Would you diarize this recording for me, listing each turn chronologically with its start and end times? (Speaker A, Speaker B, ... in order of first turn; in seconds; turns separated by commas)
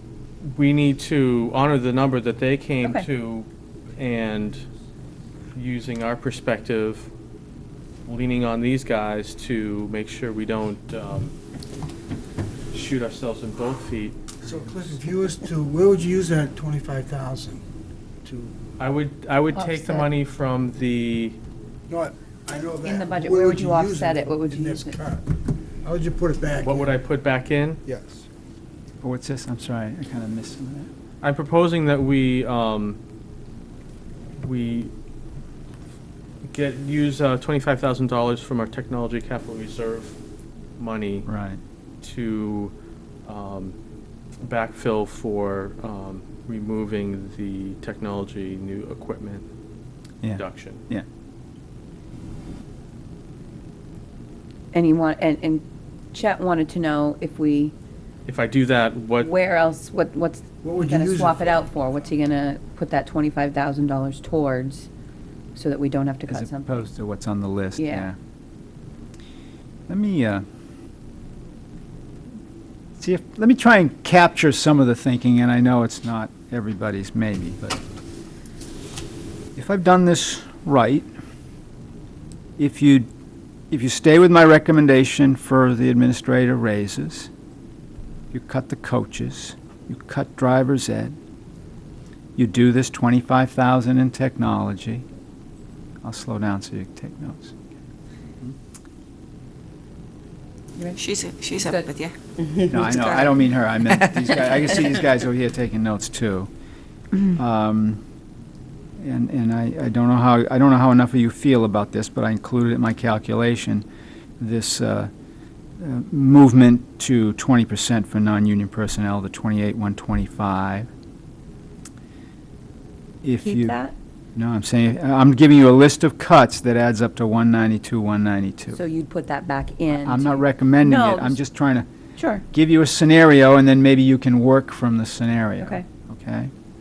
Speaker A: 0.5-4.6, Speaker A: 5.5-7.1, Speaker A: 8.1-11.3, Speaker A: 12.7-14.3, Speaker B: 14.4-17.6, Speaker B: 18.2-18.5, Speaker A: 18.8-21.4, Speaker C: 19.5-20.1, Speaker B: 21.9-27.0, Speaker C: 22.8-25.0, Speaker A: 26.5-27.8, Speaker B: 27.9-28.2, Speaker D: 29.0-30.9, Speaker A: 31.2-33.0, Speaker A: 34.4-34.9, Speaker A: 36.5-40.1, Speaker A: 40.8-41.3, Speaker D: 41.2-41.6, Speaker A: 42.0-42.7, Speaker A: 43.2-43.7, Speaker A: 44.4-49.5, Speaker D: 50.2-51.0, Speaker A: 50.3-50.8, Speaker C: 54.7-57.7, Speaker A: 58.2-59.3, Speaker C: 59.2-64.9, Speaker B: 60.6-61.7, Speaker C: 65.5-66.9, Speaker D: 66.3-68.2, Speaker C: 67.8-68.1, Speaker D: 69.9-70.4, Speaker D: 73.0-77.8, Speaker D: 79.5-81.1, Speaker D: 82.6-83.1, Speaker D: 83.7-87.3, Speaker D: 88.3-91.2, Speaker D: 92.3-95.0, Speaker D: 96.0-97.7, Speaker E: 101.0-102.1, Speaker C: 101.5-101.9, Speaker D: 102.7-106.5, Speaker E: 102.7-104.8, Speaker D: 107.3-108.0, Speaker D: 109.0-113.8, Speaker D: 114.4-115.1, Speaker D: 115.8-120.9, Speaker D: 123.2-123.8, Speaker C: 123.4-124.0, Speaker D: 124.3-128.8, Speaker C: 128.7-131.4, Speaker D: 129.9-131.9, Speaker C: 132.2-132.4, Speaker D: 132.5-136.5, Speaker C: 135.6-135.8